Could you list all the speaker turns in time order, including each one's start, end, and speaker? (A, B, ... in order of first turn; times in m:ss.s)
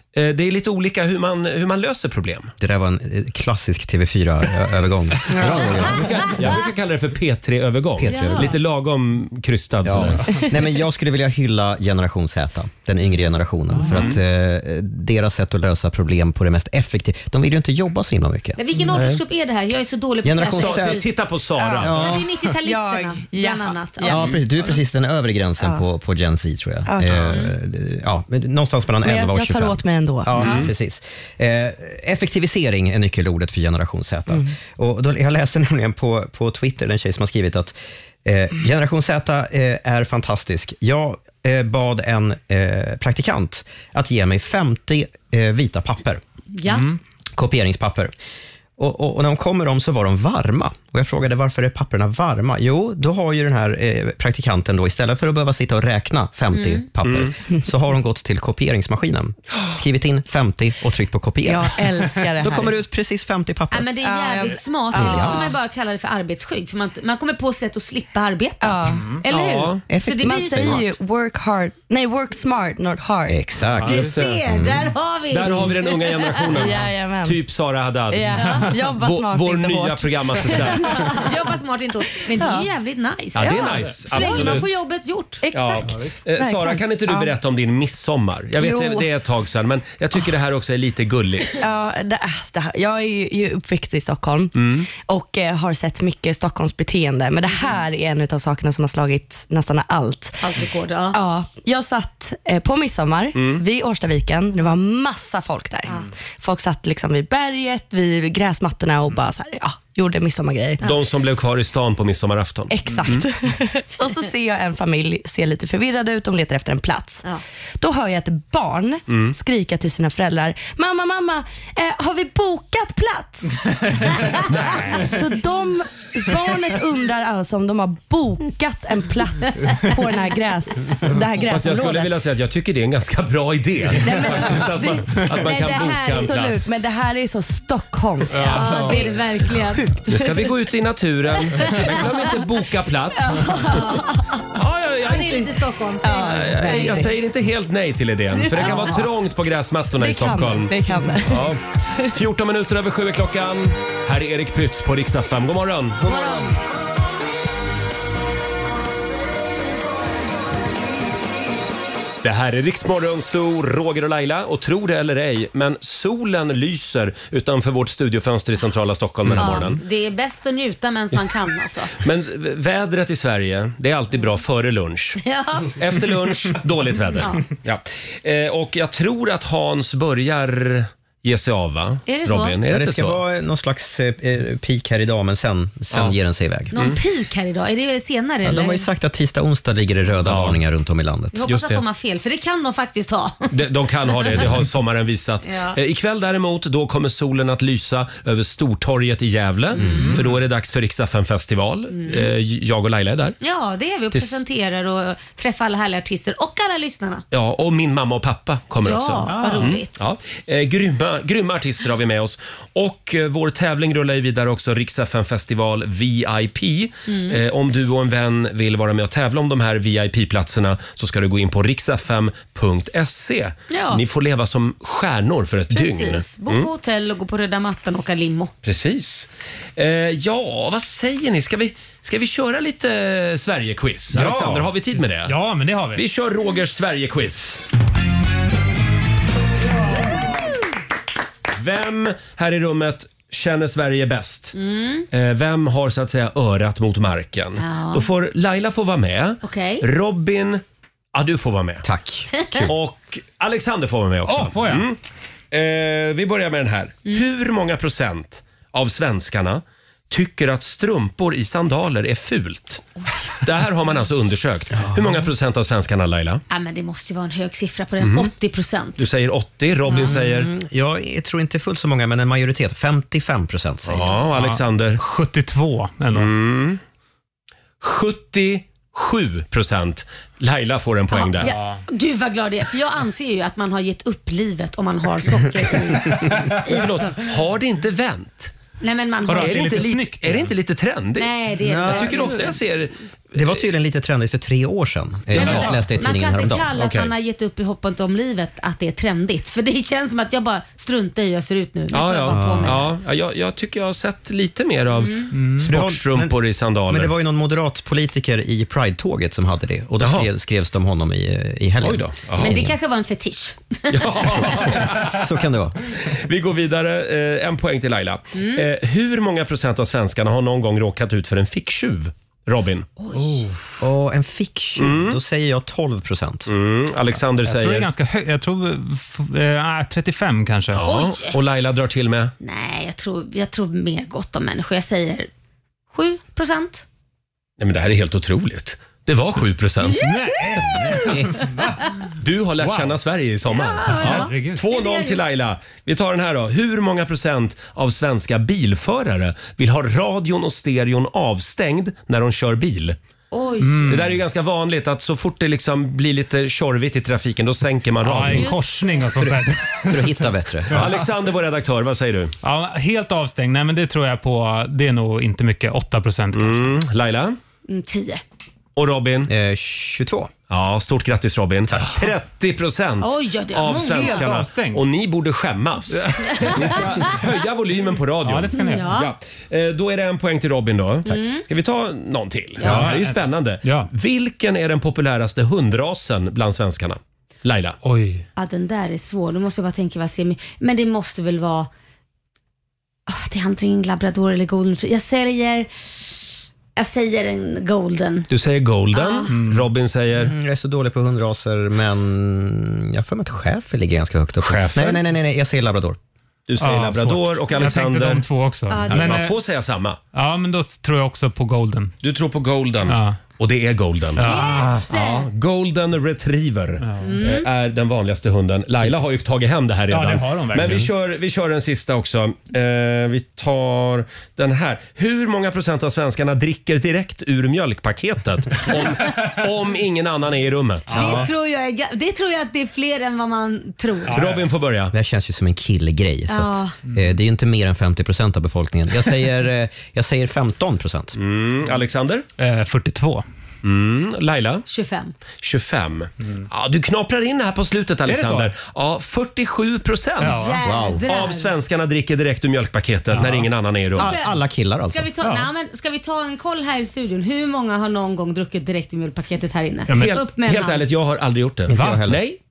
0:00.1-0:02.5 A
0:02.6-0:06.6 B
0:05.3-0:05.8 C
0:05.7-0:10.2 A
0:08.0-0:08.5 B
0:08.0-0:08.5 D
0:09.8-0:18.6 B
0:13.7-0:14.1 E
0:13.9-0:14.2 A
0:18.6-0:21.1 D
0:20.2-0:21.0 B
0:20.5-0:22.0 A
0:21.6-0:24.4 C
0:21.8-0:22.3 B
0:21.9-0:24.2 D
0:24.0-0:37.7 B
0:26.9-0:27.4 C
0:29.0-0:30.5 C
0:30.4-0:30.7 A
0:30.4-0:30.7 D
0:38.2-0:46.2 B
0:46.5-0:46.9 D
0:46.7-0:47.0 E
0:47.3-0:48.1 B
0:48.8-1:03.9 B
0:56.5-0:56.8 D
0:57.0-0:57.3 A
1:01.4-1:02.7 C
1:03.7-1:10.8 D
1:04.0-1:05.6 C
1:04.9-1:05.5 B
1:08.6-1:09.0 C
1:09.0-1:09.2 E
1:09.3-1:09.8 A
1:09.9-1:10.9 B
1:10.2-1:13.4 C
1:13.3-1:14.9 B
1:13.8-1:14.1 E
1:13.8-1:16.4 D
1:13.9-1:14.3 A
1:15.3-1:21.0 A
1:16.5-1:17.4 C
1:18.1-1:21.4 C
1:18.3-1:18.8 E
1:20.8-1:25.4 D
1:22.3-1:22.7 C
1:23.3-1:24.7 A
1:23.4-1:24.6 C
1:24.2-1:24.6 E
1:25.4-1:27.3 C
1:25.5-1:31.6 A
1:25.8-1:26.1 E
1:28.6-1:29.1 C
1:31.5-1:40.6 C
1:34.6-1:34.9 A
1:40.4-1:41.2 D
1:41.1-1:50.8 C
1:43.3-1:43.6 A
1:50.8-1:53.2 A
1:52.7-1:57.2 C
1:57.8-2:12.1 C
1:59.1-1:59.4 A
2:04.4-2:05.1 E
2:04.6-2:04.9 A
2:11.5-2:16.8 A
2:14.0-2:20.5 C
2:15.4-2:16.3 D
2:18.3-2:19.1 E
2:18.4-2:19.8 D
2:20.1-2:23.4 A
2:21.6-2:22.3 C
2:23.2-2:24.3 C
2:23.3-2:24.1 D
2:24.5-2:25.5 A
2:25.0-2:27.1 D
2:26.0-2:27.1 C
2:26.2-2:30.7 A
2:28.3-2:29.0 D
2:28.5-2:29.0 C
2:30.0-2:32.1 C
2:31.2-2:36.0 A
2:36.0-2:36.5 D
2:42.2-2:49.8 A
2:49.4-2:51.9 D
2:51.9-2:55.2 A
2:55.2-2:55.7 D
2:55.7-3:03.2 A
3:02.0-3:02.6 D
3:02.7-3:06.7 B
3:06.7-3:08.8 D
3:06.7-3:07.0 A
3:08.4-3:11.4 B
3:10.2-3:10.6 A
3:11.3-3:13.5 D
3:11.4-3:11.8 A
3:13.5-3:23.4 A
3:15.4-3:15.8 D
3:19.8-3:20.1 D
3:19.8-3:20.2 B
3:19.9-3:20.2 E
3:21.9-3:22.3 D
3:23.4-3:27.2 D
3:24.1-3:24.4 A
3:27.3-3:46.7 A
3:28.8-3:30.0 D
3:29.3-3:29.8 E
3:37.1-3:37.4 D
3:43.7-3:44.0 D
3:45.7-3:48.5 D
3:48.6-3:55.3 A
3:54.1-3:54.7 E
3:55.2-3:56.0 E
3:55.9-3:57.6 A
4:01.6-4:04.5 A
4:04.5-4:05.1 D
4:05.1-4:10.6 A
4:07.6-4:08.1 D
4:09.4-4:09.8 D
4:11.1-4:11.8 A
4:11.8-4:12.7 B
4:12.4-4:12.6 D
4:12.6-4:15.0 A
4:14.2-4:14.9 E
4:15.5-4:22.9 A
4:23.4-4:26.4 A
4:26.5-4:29.0 D
4:28.0-4:28.3 A
4:29.0-4:30.5 A
4:29.9-4:34.1 B
4:33.9-4:35.0 A
4:34.3-4:36.3 E
4:36.1-4:36.8 A
4:37.8-4:41.5 A
4:41.1-4:47.2 D
4:41.4-4:41.8 E
4:46.7-4:48.5 A
4:48.8-4:49.7 D
4:49.3-4:50.5 E
4:49.3-4:53.6 A
4:51.2-4:52.6 D
4:51.6-4:52.3 B
4:53.3-4:56.7 B
4:55.3-5:02.9 D
4:55.4-4:55.7 A
4:55.4-4:55.9 E
4:56.8-4:57.1 A
5:01.9-5:07.1 A
5:02.3-5:02.8 B
5:05.0-5:05.3 D
5:05.3-5:05.7 E
5:05.6-5:12.8 B
5:10.0-5:10.3 A
5:11.8-5:12.5 A
5:12.4-5:14.6 D
5:13.9-5:15.2 A
5:14.6-5:15.8 B
5:16.0-5:22.9 A
5:18.3-5:18.6 D
5:23.0-5:23.6 D
5:23.8-5:26.5 B
5:24.8-5:25.2 A
5:26.5-5:27.9 A
5:27.4-5:30.8 E
5:30.7-5:32.3 A
5:30.8-5:31.4 D
5:32.4-5:35.3 D
5:35.9-5:36.8 D
5:37.6-5:40.0 A
5:39.9-5:41.9 E
5:42.2-5:53.0 A
5:42.6-5:43.0 E
5:43.5-5:45.2 D
5:43.9-5:44.6 E
5:53.3-5:54.0 D
5:53.6-5:54.2 E
5:53.9-5:58.6 A
5:58.0-6:00.1 E
5:58.3-5:59.1 D
5:59.9-6:00.9 B
6:00.7-6:02.3 A
6:02.4-6:06.7 E
6:06.3-6:07.4 A
6:07.7-6:08.2 D
6:08.8-6:09.3 A
6:09.3-6:10.3 B
6:10.5-6:27.8 A
6:11.7-6:12.0 B
6:13.0-6:14.3 D
6:13.7-6:14.8 E
6:16.0-6:17.2 E
6:16.3-6:16.7 D
6:18.2-6:19.0 E
6:18.6-6:19.1 D
6:21.0-6:21.4 D
6:22.6-6:23.9 E
6:27.8-6:28.2 E
6:28.4-6:31.7 D
6:33.1-6:36.2 D
6:36.8-6:38.3 D
6:38.3-6:40.3 A
6:38.9-6:39.3 D
6:39.3-6:39.7 E
6:40.2-6:46.0 B
6:44.4-6:45.0 A
6:46.5-6:48.2 A
6:46.6-6:49.4 E
6:48.7-6:49.2 D
6:48.9-6:50.0 A
6:50.1-6:51.9 E
6:52.0-7:11.3 A
6:52.9-6:53.2 E
6:54.1-6:54.8 E
6:54.2-6:55.3 D
6:56.8-6:57.2 E
6:57.0-6:57.5 D
6:59.9-7:00.9 E
7:10.9-7:11.3 E
7:10.9-7:14.2 D
7:14.1-7:14.5 E
7:14.1-7:14.9 A
7:14.9-7:21.1 B
7:16.3-7:16.7 D
7:21.2-7:22.2 A
7:22.4-7:23.2 E
7:23.6-7:24.6 A
7:24.6-7:25.1 D
7:25.4-7:30.4 A
7:28.0-7:28.5 E
7:30.2-7:30.6 E
7:30.3-7:31.5 D
7:30.6-7:31.0 B
7:31.1-7:34.1 A
7:33.1-7:33.5 E
7:34.0-7:35.1 B
7:34.0-7:40.8 D
7:35.2-7:35.5 E
7:39.9-7:40.2 E
7:40.0-7:42.4 A
7:41.7-7:42.2 B
7:41.7-7:42.0 E